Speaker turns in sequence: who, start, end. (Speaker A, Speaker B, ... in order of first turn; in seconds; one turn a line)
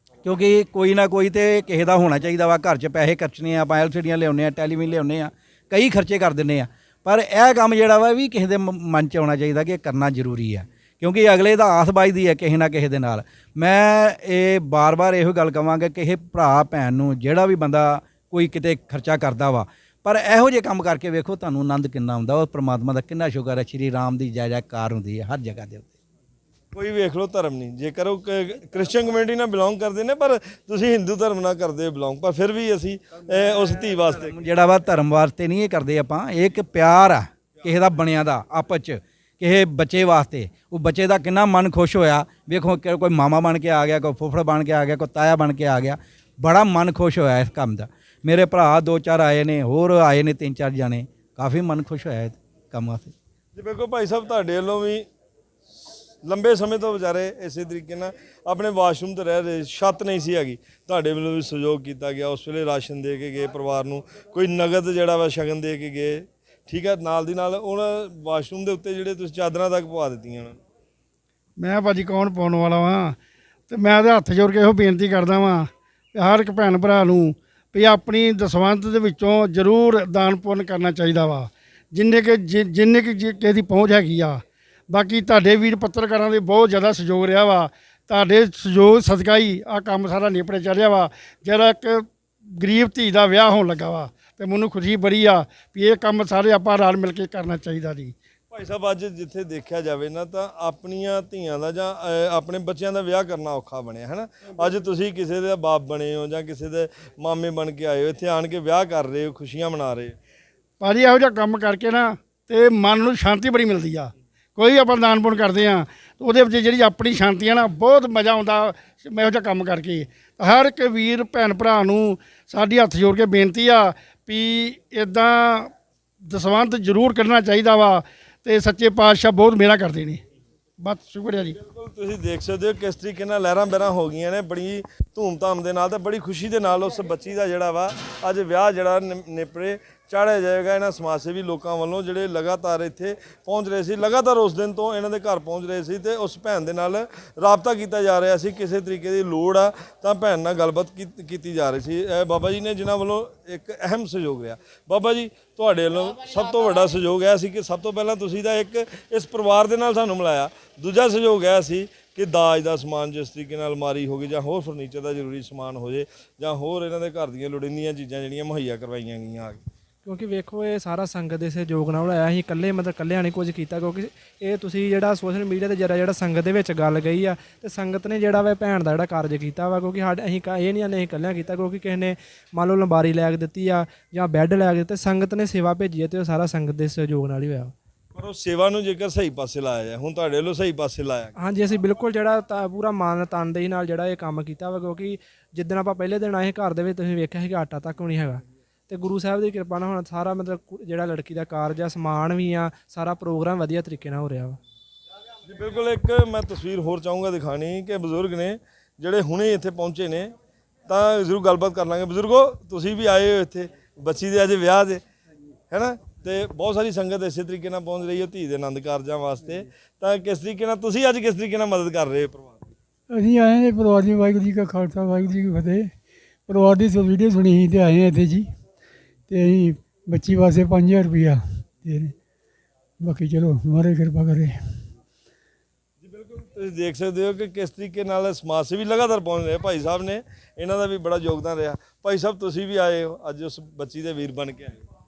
Speaker A: 0.2-25.9
Speaker B: 26.7-34.3
Speaker A: 34.1-53.1
Speaker B: 53.5-55.0
Speaker B: 55.8-70.6
Speaker C: 71.6-73.2
Speaker C: 73.7-98.1
Speaker B: 98.5-110.2
Speaker C: 110.8-125.7
Speaker C: 126.2-130.2
Speaker C: 130.8-131.6
Speaker B: 131.6-169.6
Speaker D: 170.0-187.7
Speaker B: 188.2-191.3
Speaker D: 191.3-204.6
Speaker B: 205.4-210.3
Speaker B: 210.9-215.0
Speaker B: 215.7-222.7
Speaker E: 223.1-225.9
Speaker E: 226.5-228.5
Speaker E: 229.3-232.1
Speaker E: 233.0-234.8
Speaker B: 236.0-244.8